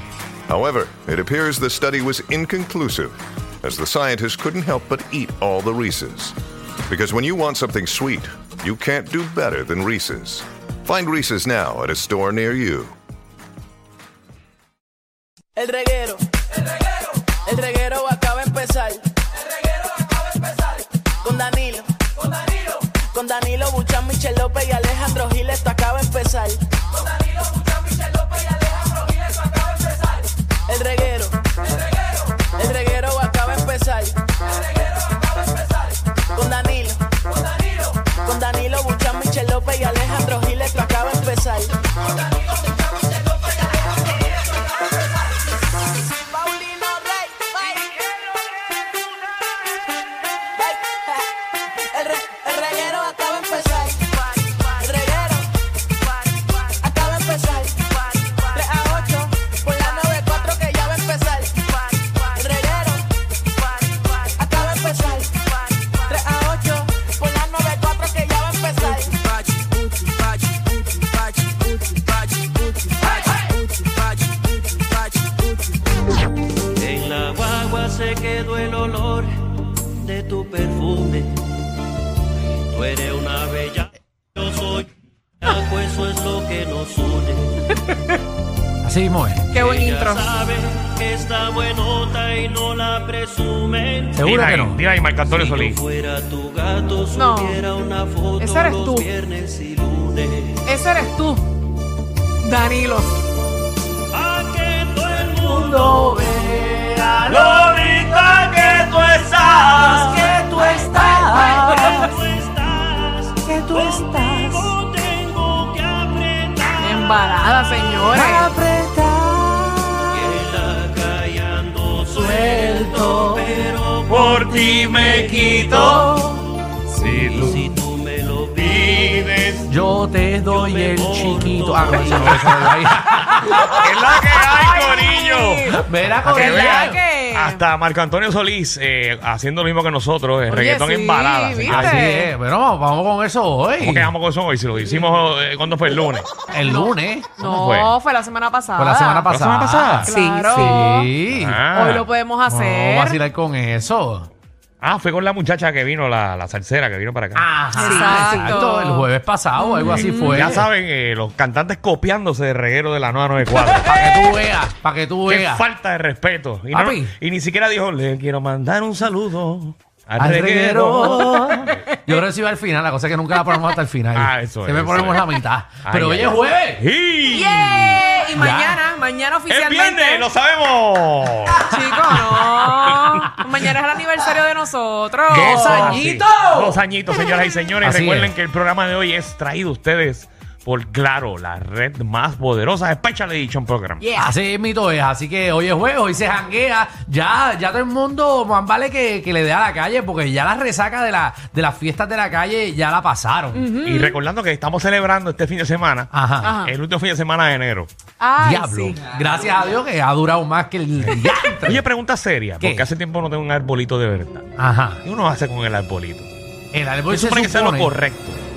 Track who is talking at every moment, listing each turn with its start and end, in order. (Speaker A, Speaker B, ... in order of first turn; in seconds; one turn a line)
Speaker A: 0.5-6.3
Speaker A: 6.9-12.9
Speaker B: 15.6-16.2
Speaker B: 17.4-19.1
Speaker B: 21.2-21.9
Speaker B: 22.7-26.6
Speaker B: 30.7-31.4
Speaker B: 32.5-34.2
Speaker B: 36.3-37.1
Speaker B: 37.8-41.7
Speaker B: 46.1-48.0
Speaker B: 50.5-55.5
Speaker B: 56.4-75.5
Speaker C: 76.8-81.5
Speaker C: 82.7-84.9
Speaker C: 85.4-87.7
Speaker D: 88.8-89.5
Speaker E: 89.5-90.4
Speaker C: 89.5-94.2
Speaker D: 94.1-94.8
Speaker F: 94.2-95.8
Speaker C: 95.2-100.7
Speaker E: 97.1-97.7
Speaker E: 98.4-99.1
Speaker E: 100.7-101.5
Speaker E: 102.4-103.2
Speaker C: 104.1-106.5
Speaker D: 105.5-107.7
Speaker C: 107.3-118.1
Speaker D: 109.8-112.0
Speaker E: 110.8-111.2
Speaker D: 113.5-114.3
Speaker E: 116.8-118.5
Speaker C: 120.1-126.1
Speaker D: 122.4-123.4
Speaker F: 124.1-126.3
Speaker F: 126.9-127.6
Speaker C: 127.1-129.6
Speaker F: 128.6-129.6
Speaker D: 129.7-134.1
Speaker C: 130.4-132.4
Speaker F: 132.0-132.6
Speaker F: 133.4-142.0
Speaker E: 134.5-135.8
Speaker D: 135.7-137.0
Speaker E: 136.3-137.6
Speaker E: 140.5-142.3
Speaker D: 141.6-144.1
Speaker F: 143.8-146.3
Speaker D: 146.5-147.3
Speaker E: 146.6-149.3
Speaker F: 147.4-147.9
Speaker D: 148.8-151.6
Speaker F: 149.3-150.2
Speaker E: 150.1-151.1
Speaker C: 150.1-150.8
Speaker F: 151.3-152.1
Speaker E: 151.7-153.2
Speaker D: 152.5-154.3
Speaker F: 154.8-157.5
Speaker D: 157.3-160.6
Speaker E: 157.8-159.1
Speaker C: 157.9-158.4
Speaker E: 159.6-160.6
Speaker F: 159.9-164.0
Speaker D: 163.8-165.6
Speaker F: 165.3-171.9
Speaker D: 166.7-167.1
Speaker D: 170.2-176.8
Speaker F: 174.1-175.3
Speaker F: 175.8-178.1
Speaker E: 177.3-180.3
Speaker D: 178.3-178.8
Speaker F: 179.5-181.7
Speaker E: 181.5-185.8
Speaker D: 181.7-183.2
Speaker F: 183.0-183.4
Speaker D: 185.3-186.8
Speaker F: 185.3-194.1
Speaker D: 187.8-188.3
Speaker E: 194.0-194.3
Speaker D: 194.2-203.7
Speaker E: 203.5-204.2
Speaker F: 203.8-207.9
Speaker D: 206.1-206.6
Speaker E: 206.4-206.8
Speaker E: 208.2-209.0
Speaker D: 208.4-211.8
Speaker F: 211.0-214.5
Speaker D: 212.6-212.8
Speaker D: 214.6-215.0
Speaker F: 215.0-216.3
Speaker D: 216.7-217.9
Speaker F: 217.1-218.4